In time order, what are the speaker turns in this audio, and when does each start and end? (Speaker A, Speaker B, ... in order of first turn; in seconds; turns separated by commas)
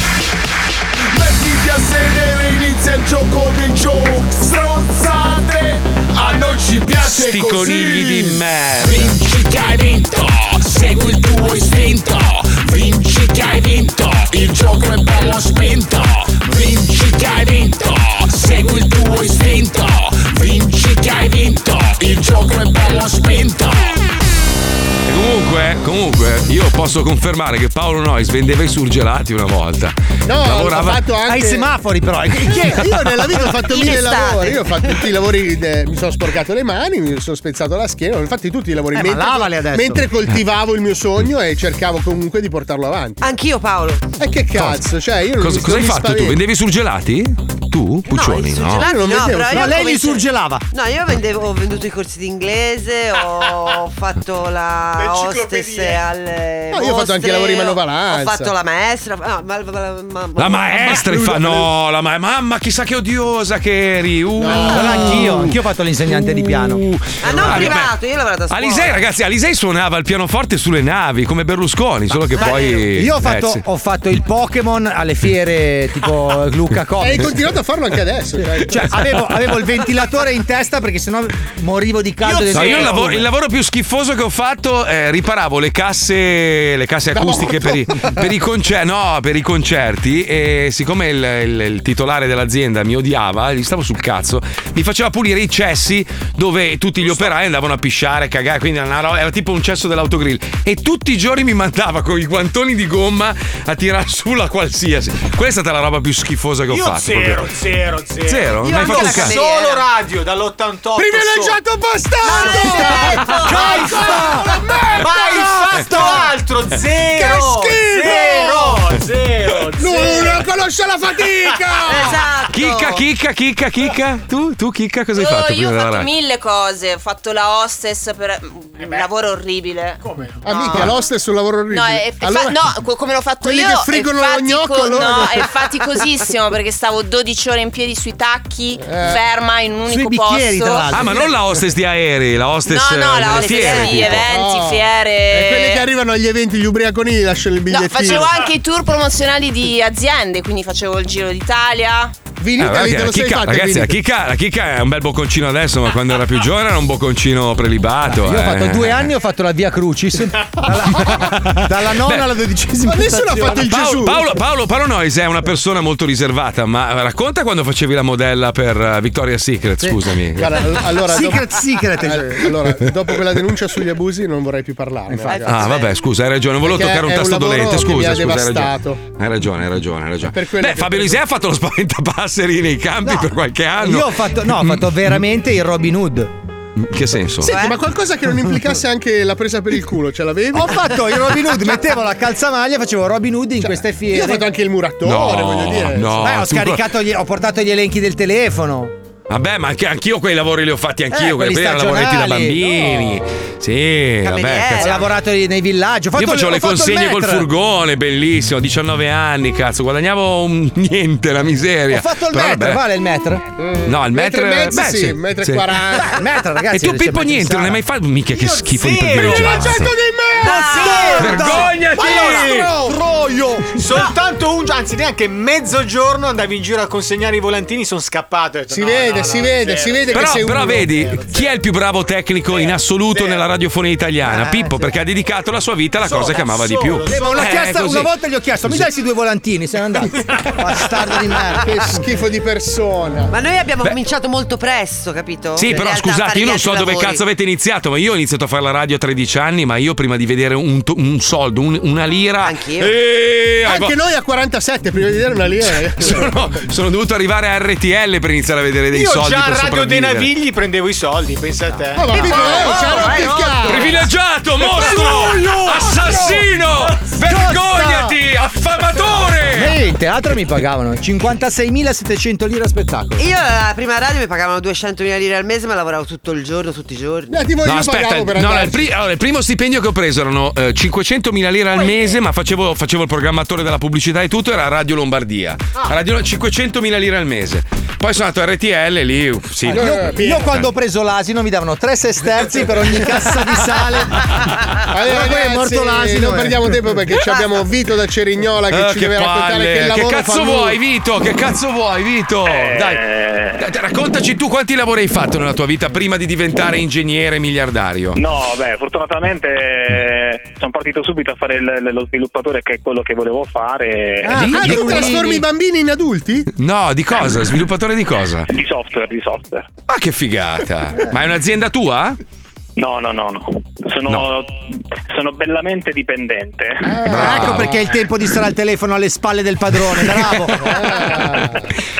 Speaker A: 1.1-8.4, Speaker B: 7.0-9.2, Speaker A: 8.9-23.7, Speaker B: 25.1-31.0, Speaker C: 30.2-31.7, Speaker D: 31.2-32.9, Speaker C: 32.5-43.3, Speaker E: 33.6-34.7, Speaker D: 38.9-40.1, Speaker E: 43.2-44.1, Speaker C: 44.2-46.4, Speaker B: 44.5-44.8, Speaker B: 45.4-48.9, Speaker E: 48.1-61.0, Speaker C: 48.8-49.9, Speaker D: 49.5-50.6, Speaker F: 53.4-53.7, Speaker F: 55.0-56.0, Speaker C: 56.7-58.5, Speaker B: 60.4-67.9, Speaker C: 60.8-61.7, Speaker C: 64.4-65.3, Speaker D: 64.5-67.7, Speaker E: 67.2-69.1, Speaker B: 68.5-73.6, Speaker E: 72.3-72.9, Speaker D: 72.9-77.4, Speaker C: 77.0-79.0, Speaker D: 78.4-83.3, Speaker F: 82.2-83.0, Speaker B: 82.5-107.5, Speaker C: 87.1-88.2, Speaker F: 97.0-97.3, Speaker F: 106.7-111.6, Speaker B: 108.3-109.4, Speaker E: 108.7-109.9, Speaker C: 110.9-116.3, Speaker E: 112.2-113.9, Speaker D: 112.3-114.5, Speaker F: 112.3-114.4, Speaker F: 115.0-120.5, Speaker C: 117.1-118.8, Speaker C: 119.8-122.3, Speaker F: 121.4-122.0, Speaker E: 121.9-123.0, Speaker B: 122.5-126.1, Speaker G: 125.1-130.0, Speaker F: 130.0-130.7, Speaker C: 130.4-132.7, Speaker G: 131.7-140.9, Speaker C: 133.4-135.8, Speaker C: 138.8-139.2, Speaker D: 139.9-141.3, Speaker B: 140.9-144.3, Speaker G: 142.7-145.8, Speaker C: 143.4-148.5, Speaker G: 147.7-152.1, Speaker C: 152.4-153.9, Speaker B: 152.6-159.1, Speaker D: 158.0-163.6, Speaker B: 160.9-162.3, Speaker C: 162.8-164.3, Speaker B: 163.4-170.7, Speaker C: 169.8-175.7, Speaker D: 171.0-172.5, Speaker D: 175.1-175.6, Speaker B: 175.4-185.2, Speaker C: 176.6-179.0, Speaker C: 180.3-181.2, Speaker D: 183.0-186.3, Speaker B: 186.8-187.5, Speaker E: 187.4-187.8, Speaker C: 187.4-191.5, Speaker D: 190.5-194.5, Speaker C: 193.7-196.2, Speaker B: 195.0-196.9, Speaker D: 196.1-198.9, Speaker B: 199.3-205.0, Speaker D: 201.1-203.1, Speaker E: 204.2-205.1, Speaker D: 204.8-207.5, Speaker B: 206.2-212.8, Speaker D: 211.9-213.4, Speaker C: 213.6-216.2, Speaker B: 213.8-215.8, Speaker D: 215.9-217.8, Speaker B: 216.7-219.9, Speaker F: 218.3-222.9, Speaker C: 219.3-221.1, Speaker D: 220.4-224.0, Speaker B: 221.1-222.6, Speaker C: 222.0-222.4, Speaker F: 223.7-231.5, Speaker C: 228.7-231.0, Speaker B: 230.1-238.1, Speaker F: 232.5-233.5, Speaker D: 234.2-234.9, Speaker F: 236.0-237.6, Speaker D: 237.1-242.0, Speaker C: 241.6-243.3, Speaker E: 243.3-247.2, Speaker B: 245.5-253.9, Speaker E: 252.4-252.9, Speaker C: 253.7-256.3, Speaker B: 255.7-260.3, Speaker F: 258.9-264.0, Speaker C: 261.9-263.9, Speaker D: 262.1-263.5, Speaker B: 263.6-269.8, Speaker F: 264.6-265.4, Speaker D: 264.7-266.4, Speaker D: 267.2-268.2, Speaker D: 269.4-273.2, Speaker E: 273.2-277.3, Speaker C: 277.3-278.9, Speaker B: 277.6-290.6, Speaker D: 289.6-294.3, Speaker C: 289.7-290.5, Speaker C: 294.9-300.8, Speaker D: 295.0-296.6, Speaker B: 298.7-303.0, Speaker H: 302.4-303.7, Speaker B: 303.6-308.2, Speaker H: 308.1-314.4, Speaker D: 314.2-315.4, Speaker B: 314.3-315.0, Speaker C: 314.5-316.5, Speaker B: 316.6-318.5, Speaker H: 318.5-319.7, Speaker B: 319.9-322.2, Speaker H: 322.8-327.0, Speaker C: 326.9-327.8, Speaker D: 327.1-331.0, Speaker B: 327.1-327.8, Speaker C: 330.6-331.6